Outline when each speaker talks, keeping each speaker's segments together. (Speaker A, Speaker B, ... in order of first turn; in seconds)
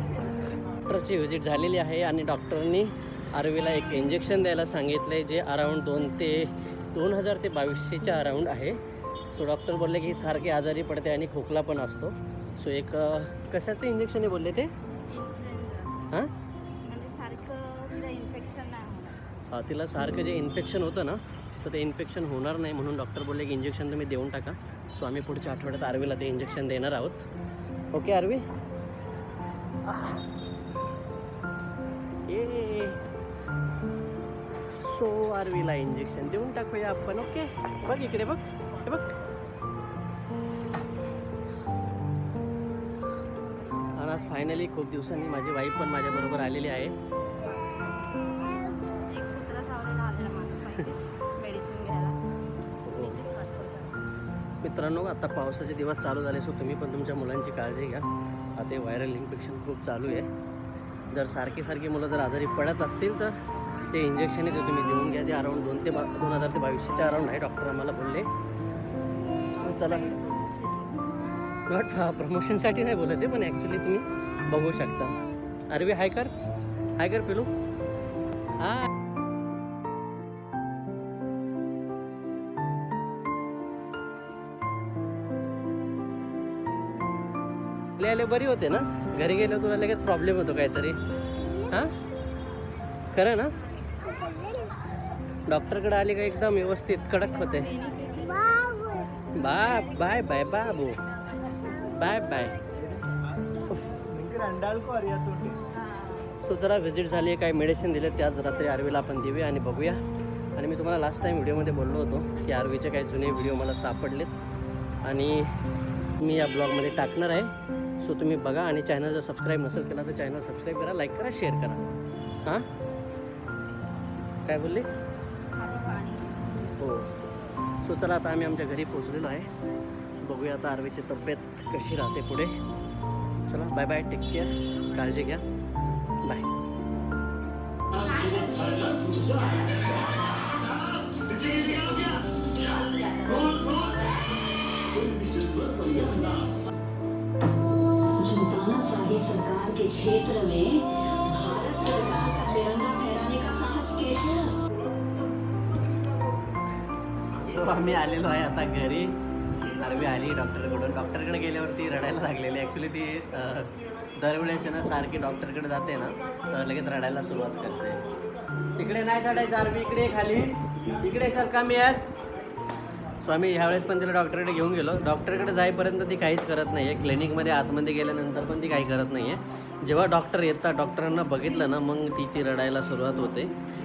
Speaker A: 0.8-8.8, 9.3-14.7, 19.5-27.3, 27.9-28.4, 29.9-30.2, 32.3-33.0, 34.7-39.1, 43.9-47.0, 52.9-53.2, 54.6-60.3, 61.1-63.4, 63.9-68.3, 69.5-70.1, 71.7-75.2, 75.7-76.3, 77.0-77.5, 78.6-78.9, 88.0-91.0, 91.5-91.9, 93.1-93.5, 95.5-97.8, 99.3-101.0, 101.8-102.6, 103.7-104.0, 106.4-110.0, 110.5-114.3, 115.0-115.5, 116.2-121.9, 124.5-124.9, 126.8-127.1, 127.8-129.5, 130.2-132.5, 133.5-135.4, 157.3-159.1, 159.8-168.0, 168.8-172.0, 173.2-183.5
Speaker B: 15.1-16.1, 16.8-19.2, 47.4-47.8, 48.4-52.2, 53.0-53.9, 70.0-70.9, 97.8-99.0, 125.5-126.3, 138.0-139.8
Speaker C: 141.6-142.1, 142.8-143.9, 144.9-146.4, 148.2-154.6